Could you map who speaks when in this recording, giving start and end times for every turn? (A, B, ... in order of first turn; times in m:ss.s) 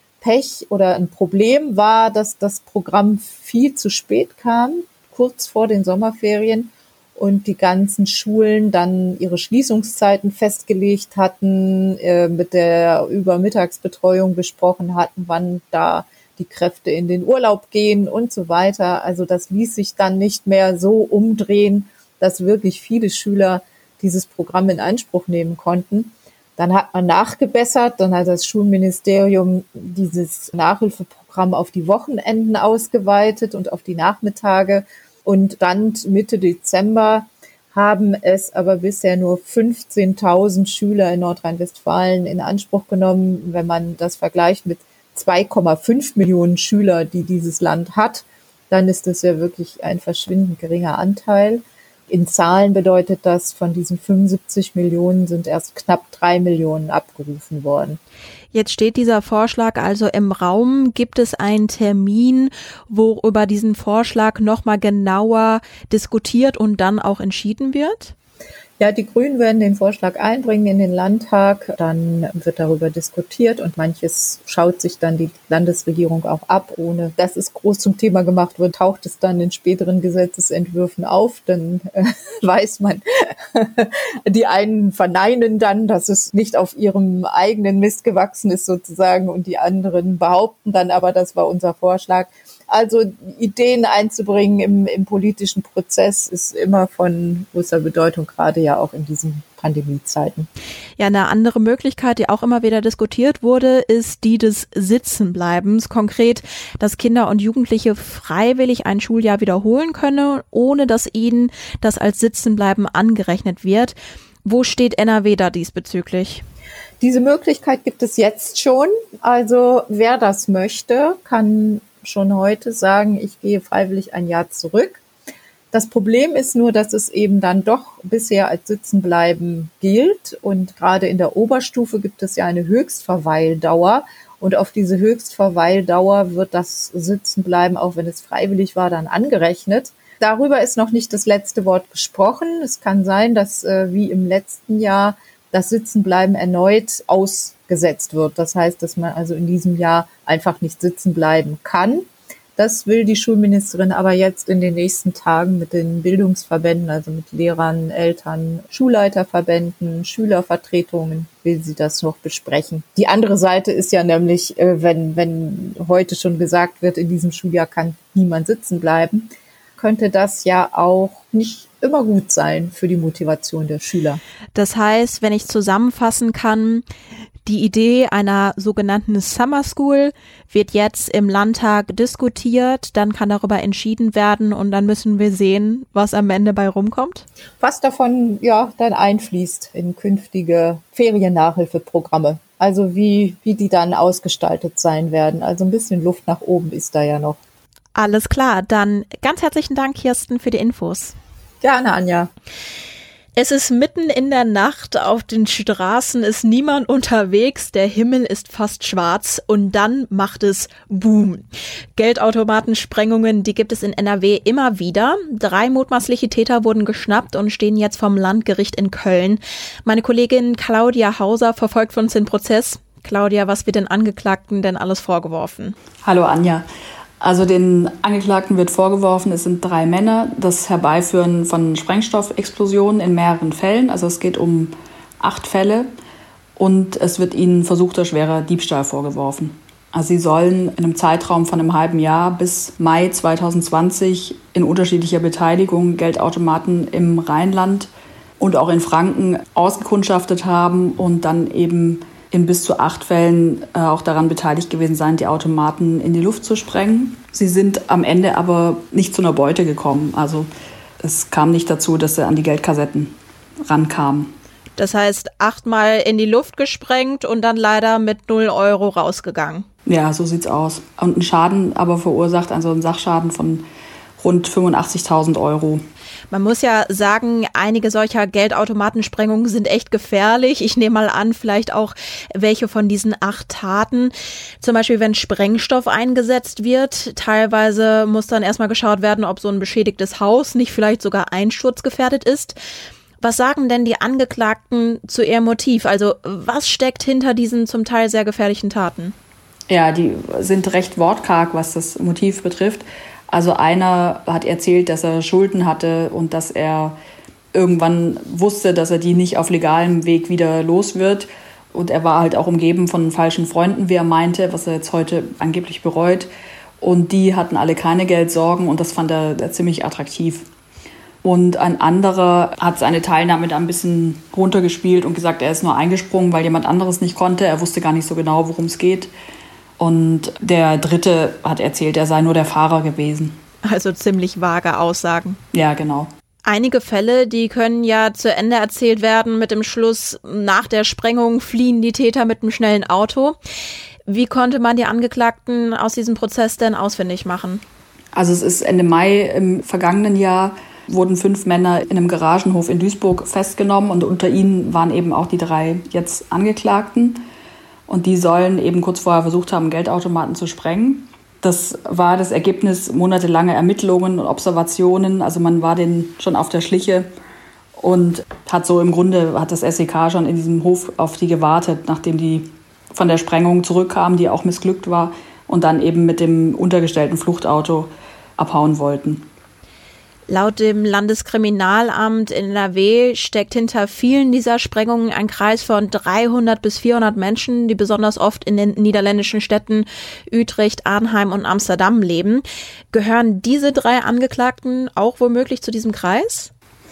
0:00.2-0:58.0 A
0:58.5-1:08.1 B
1:08.8-1:40.5 A
1:41.0-1:56.4 B
1:57.0-2:05.0 A
2:05.7-2:32.0 A
2:32.6-2:54.2 A
2:54.5-2:56.8 B
2:57.4-3:07.2 B
3:07.6-3:17.4 A
3:17.9-3:21.2 B
3:21.6-3:22.3 A
3:23.4-3:31.4 B
3:32.0-3:45.8 B
3:46.0-3:46.6 C
3:47.2-3:55.9 C
3:56.6-4:20.5 C
4:21.0-4:23.1 C
4:23.7-4:24.3 C
4:24.8-4:29.6 B
4:29.8-4:33.6 C
4:34.2-4:35.8 C
4:36.3-4:52.6 B
4:53.2-4:59.1 B
4:59.7-5:06.9 C
5:07.5-5:16.3 C
5:16.8-5:20.4 C
5:21.2-5:29.1 C
5:29.8-5:33.4 C
5:33.6-5:35.4 B
5:35.5-5:36.1 C
5:36.4-5:43.4 B
5:44.1-5:47.6 B
5:48.1-5:57.2 C
5:57.9-6:07.1 C
6:07.8-6:19.2 C
6:20.3-6:36.5 B